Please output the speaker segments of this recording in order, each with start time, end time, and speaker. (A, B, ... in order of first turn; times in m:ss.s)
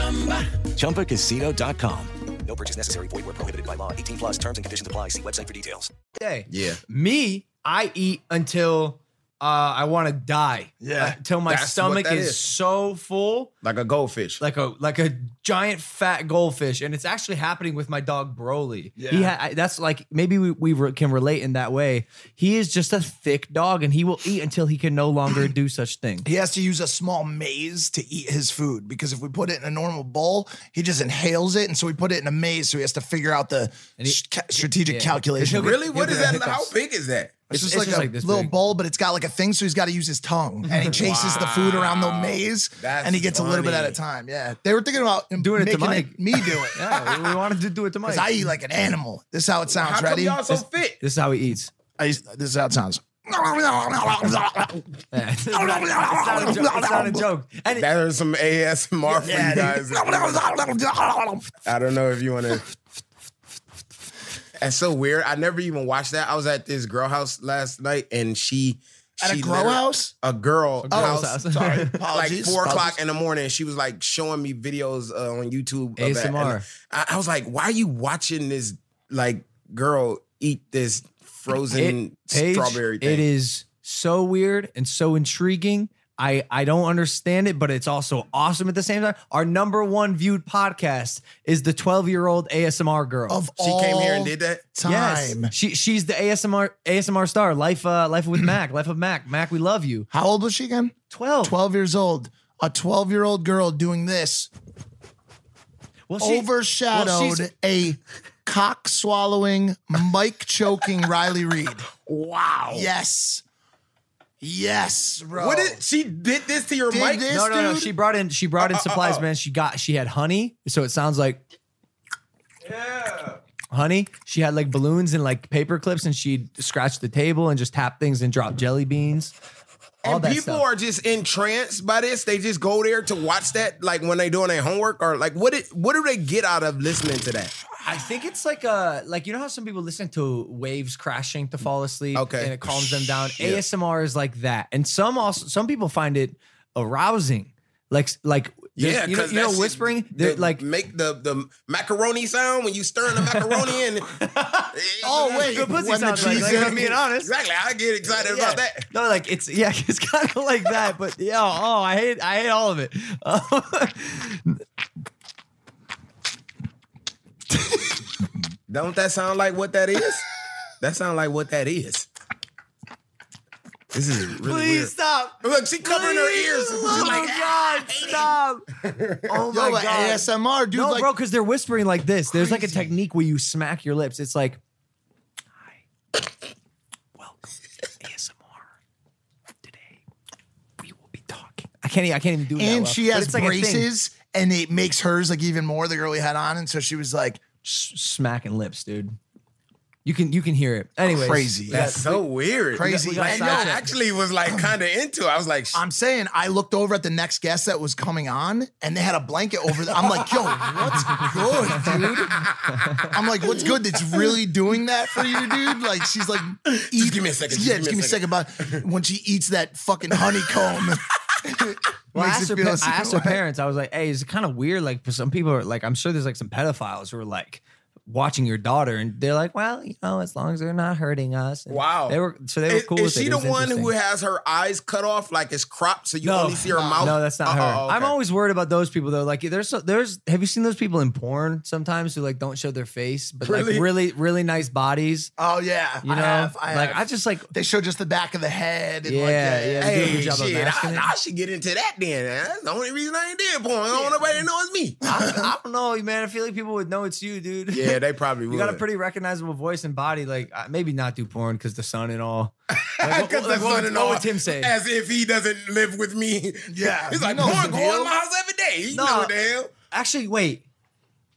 0:00.7-0:05.9 A
0:06.1-0:13.5 B
0:06.5-0:06.8 C
0:10.8-0:11.2 D
0:11.5-0:12.4 C
0:13.6-0:14.4 C
0:14.4-0:26.3 B
0:19.0-0:19.3 D
0:26.2-0:35.7 D
0:34.0-0:36.7 B
0:35.4-0:37.4 C
0:37.5-0:46.8 D
0:37.5-0:38.5 B
0:40.8-0:44.0 C
0:45.4-0:46.2 B
0:46.7-0:48.3 B
0:48.0-0:50.4 D
0:49.7-0:51.0 C
0:51.0-0:51.7 B
0:52.0-0:54.8 D
0:55.1-0:57.9 B
0:55.5-0:57.3 D
0:57.7-1:00.4 C
0:59.2-1:01.5 D
1:01.6-1:02.6 C
1:04.6-1:11.4 C
1:09.2-1:10.1 D
1:10.8-1:12.0 B
1:10.9-1:13.0 D
1:12.1-1:23.2 C
1:16.0-1:16.6 B
1:21.7-1:33.4 B
1:33.3-1:35.5 D
1:33.6-1:34.7 C
1:34.8-1:40.1 B
1:40.1-1:44.5 D
1:41.1-1:41.6 B
1:46.1-1:47.5 B
1:46.2-1:51.9 D
1:52.0-1:52.9 C
1:52.7-1:53.4 D
1:54.4-1:55.8 D
1:55.3-1:57.3 C
1:56.9-1:57.9 D
1:57.3-2:01.4 B
1:58.6-1:59.2 C
2:02.6-2:09.3 B
2:10.0-2:17.6 C
2:10.0-2:10.6 B
2:17.8-2:30.6 B
2:22.1-2:23.6 C
2:28.8-2:34.1 C
2:33.2-2:33.6 B
2:34.1-2:37.3 B
2:34.7-2:38.8 C
2:35.0-2:36.9 D
2:38.1-2:44.6 B
2:47.5-2:47.9 B
2:48.7-2:50.2 C
2:50.8-2:52.1 C
2:53.9-2:58.3 C
2:54.4-2:58.6 B
2:58.8-2:59.4 C
2:59.3-3:04.6 B
2:59.4-3:01.1 D
3:02.3-3:02.9 D
3:08.0-3:08.6 B
3:09.6-3:10.0 B
3:10.8-3:13.9 B
3:12.6-3:17.4 D
3:17.6-3:19.2 B
3:20.0-3:23.8 B
3:21.0-3:22.0 D
3:21.7-3:25.8 C
3:22.7-3:23.8 D
3:25.7-3:32.3 D
3:30.7-3:33.1 C
3:31.2-3:33.1 B
3:33.1-3:43.4 D
3:36.6-3:38.8 C
3:42.1-3:53.9 B
3:51.7-3:58.1 C
3:56.2-4:05.3 B
3:56.7-3:57.2 D
4:03.4-4:03.9 C
4:05.4-4:10.2 D
4:06.0-4:07.5 B
4:09.0-4:11.1 B
4:09.8-4:15.0 C
4:15.0-4:18.0 B
4:15.2-4:15.5 D
4:17.7-4:18.8 C
4:18.5-4:24.7 B
4:22.8-4:29.7 C
4:26.7-4:28.1 D
4:28.9-4:29.3 B
4:29.9-4:30.6 B